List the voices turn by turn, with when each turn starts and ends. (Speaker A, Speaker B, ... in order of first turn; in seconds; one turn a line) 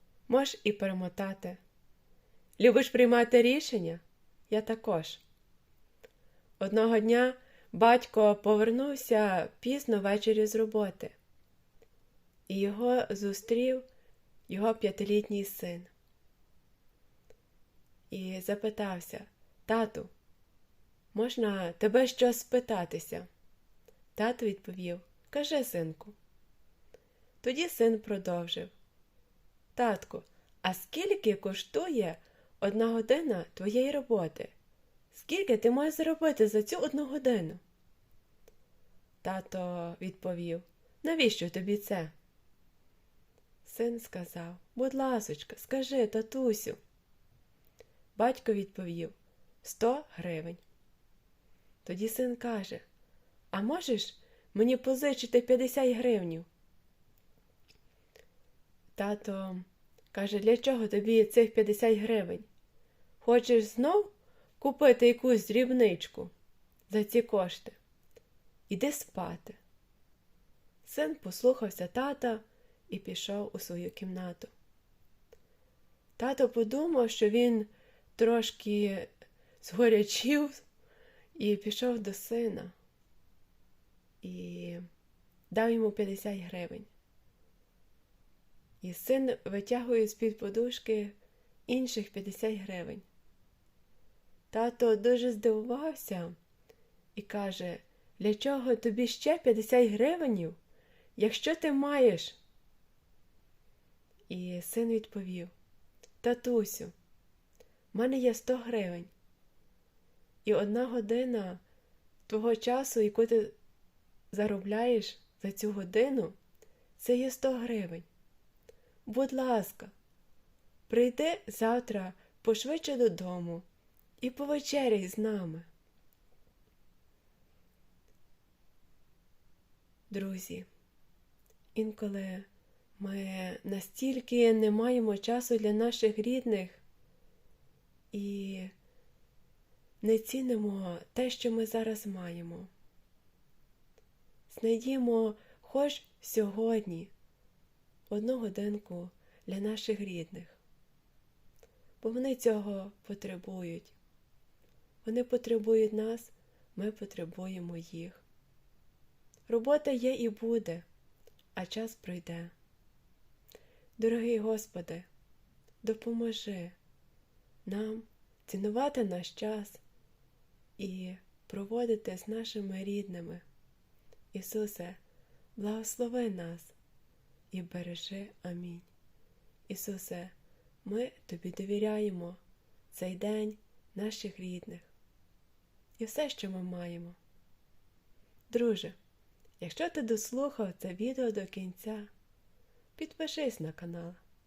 Speaker A: 0.3-1.6
Speaker A: 2.6-5.2
Speaker A: 6.6-11.1
Speaker A: 12.5-13.8
Speaker A: 14.5-15.9
Speaker A: 18.1-20.1
Speaker A: 21.1-23.3
Speaker A: 24.1-26.2
Speaker A: 27.4-28.7
Speaker A: 29.7-34.5
Speaker A: 35.1-37.6
Speaker A: 39.2-42.1
Speaker A: 43.6-46.8
Speaker A: 48.1-50.6
Speaker A: 51.8-52.8
Speaker A: 53.5-56.5
Speaker A: 59.0-62.5
Speaker A: 63.2-66.3
Speaker A: 66.9-67.8
Speaker A: 68.7-69.6
Speaker A: 70.8-74.5
Speaker A: 76.2-79.1
Speaker A: 79.6-80.6
Speaker A: 81.3-82.7
Speaker A: 84.2-84.8
Speaker A: 85.5-86.9
Speaker A: 88.8-91.1
Speaker A: 91.7-93.0
Speaker A: 94.5-96.3
Speaker A: 97.1-100.6
Speaker A: 101.2-102.4
Speaker A: 104.3-105.5
Speaker A: 106.2-106.9
Speaker A: 107.9-109.1
Speaker A: 110.4-111.6
Speaker A: 112.3-113.5
Speaker A: 114.3-116.3
Speaker A: 117.0-118.0
Speaker A: 119.0-119.9
Speaker A: 120.9-123.7
Speaker A: 124.2-125.7
Speaker A: 130.1-130.7
Speaker A: 131.8-136.8
Speaker A: 138.1-138.7
Speaker A: 140.0-142.7
Speaker A: 144.5-147.1
Speaker A: 148.1-150.6
Speaker A: 152.0-153.9
Speaker A: 155.0-158.2
Speaker A: 159.5-160.8
Speaker A: 161.6-162.5
Speaker A: 164.0-165.1
Speaker A: 165.8-166.8
Speaker A: 167.7-169.8
Speaker A: 170.8-173.4
Speaker A: 174.3-175.0
Speaker A: 175.6-176.7
Speaker A: 177.5-178.9
Speaker A: 179.7-182.4
Speaker A: 182.9-184.9
Speaker A: 186.0-187.2
Speaker A: 188.5-189.0
Speaker A: 189.6-192.1
Speaker A: 193.0-194.2